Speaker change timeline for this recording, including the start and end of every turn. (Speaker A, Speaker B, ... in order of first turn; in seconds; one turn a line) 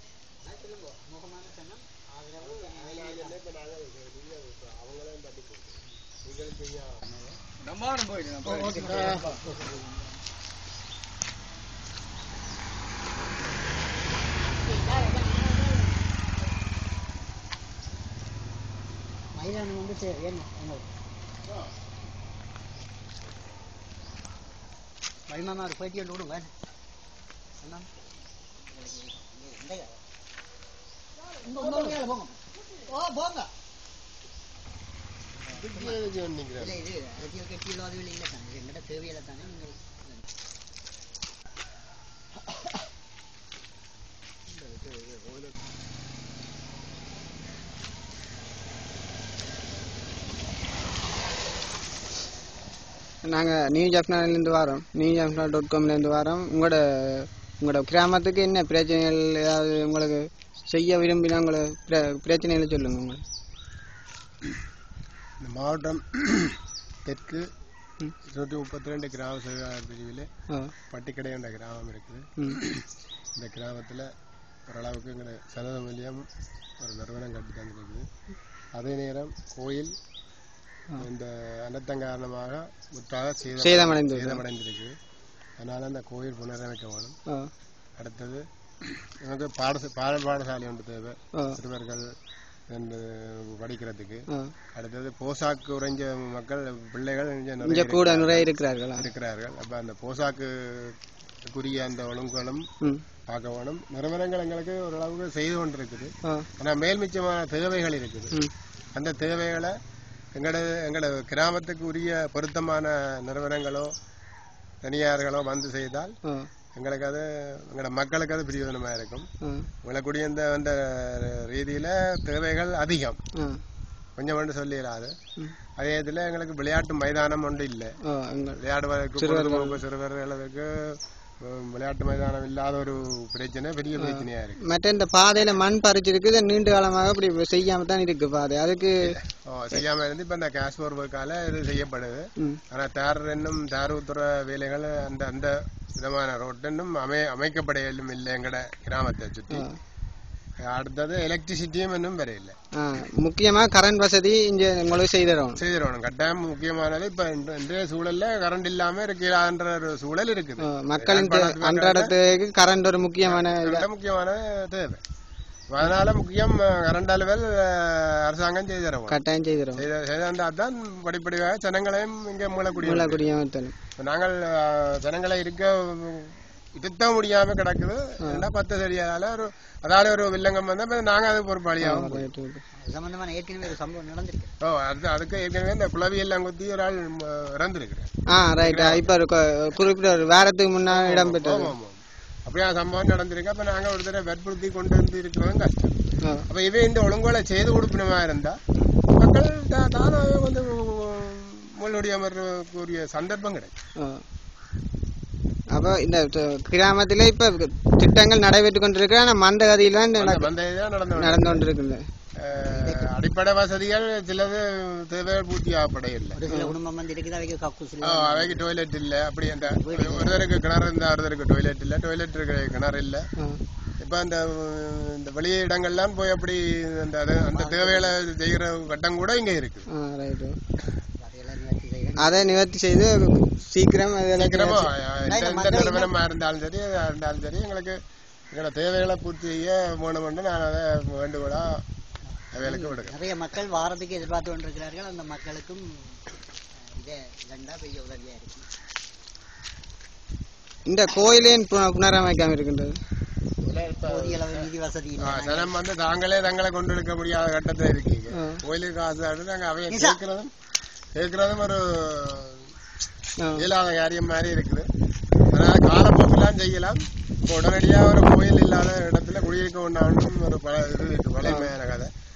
Speaker A: 0.4-3.4
Speaker B: 2.4-7.0
Speaker A: 8.4-9.8
Speaker A: 14.8-15.7
Speaker A: 19.3-20.9
Speaker A: 25.3-26.5
Speaker A: 27.6-27.9
Speaker A: 28.7-30.0
Speaker A: 31.4-33.5
Speaker B: 31.6-31.9
Speaker B: 35.5-36.8
Speaker A: 35.5-40.2
Speaker C: 53.2-63.2
Speaker B: 65.4-67.5
Speaker B: 68.2-70.3
Speaker B: 70.9-72.7
Speaker B: 73.3-74.1
Speaker B: 74.7-76.3
Speaker B: 76.8-78.0
Speaker B: 78.7-79.9
Speaker B: 81.0-84.9
Speaker C: 83.6-84.4
Speaker B: 85.6-87.2
Speaker B: 88.0-88.4
Speaker B: 89.2-92.1
Speaker B: 92.7-102.7
Speaker C: 97.6-99.1
Speaker B: 103.3-108.4
Speaker B: 108.9-109.8
Speaker B: 110.3-113.9
Speaker B: 114.8-116.2
Speaker C: 116.2-116.5
Speaker B: 116.7-119.3
Speaker C: 119.4-119.7
Speaker B: 119.8-123.2
Speaker C: 123.3-123.6
Speaker B: 124.2-125.2
Speaker B: 125.8-128.0
Speaker C: 128.0-128.6
Speaker B: 128.6-134.6
Speaker C: 129.2-129.8
Speaker C: 134.0-139.1
Speaker B: 139.1-149.7
Speaker C: 149.5-149.8
Speaker B: 150.6-152.5
Speaker C: 152.8-155.6
Speaker B: 155.6-162.1
Speaker C: 160.6-163.8
Speaker B: 163.2-165.0
Speaker B: 165.7-169.2
Speaker C: 169.1-169.8
Speaker B: 169.8-173.2
Speaker C: 172.8-173.7
Speaker B: 174.0-182.3
Speaker C: 178.2-178.4
Speaker C: 181.8-182.6
Speaker A: 182.8-184.5
Speaker B: 184.6-188.1
Speaker C: 188.3-191.7
Speaker B: 188.6-189.0
Speaker B: 190.9-198.6
Speaker B: 199.1-203.7
Speaker C: 204.0-204.2
Speaker C: 205.7-210.5
Speaker B: 210.2-211.7
Speaker C: 211.2-212.1
Speaker B: 212.4-216.4
Speaker A: 212.7-213.1
Speaker A: 216.3-218.7
Speaker C: 216.5-216.8
Speaker B: 218.0-223.2
Speaker A: 219.6-220.6
Speaker C: 223.4-223.6
Speaker B: 224.0-229.8
Speaker A: 227.4-228.2
Speaker C: 229.9-230.6
Speaker A: 231.2-232.5
Speaker C: 232.2-234.9
Speaker B: 234.3-238.0
Speaker A: 235.2-236.1
Speaker B: 238.5-241.8
Speaker B: 242.5-243.2
Speaker A: 242.6-246.2
Speaker A: 246.8-248.7
Speaker C: 250.9-252.9
Speaker B: 253.6-260.5
Speaker A: 254.0-255.8
Speaker C: 258.3-258.6
Speaker A: 259.9-260.2
Speaker B: 261.1-262.7
Speaker B: 263.6-264.9
Speaker B: 265.5-272.1
Speaker C: 271.4-271.7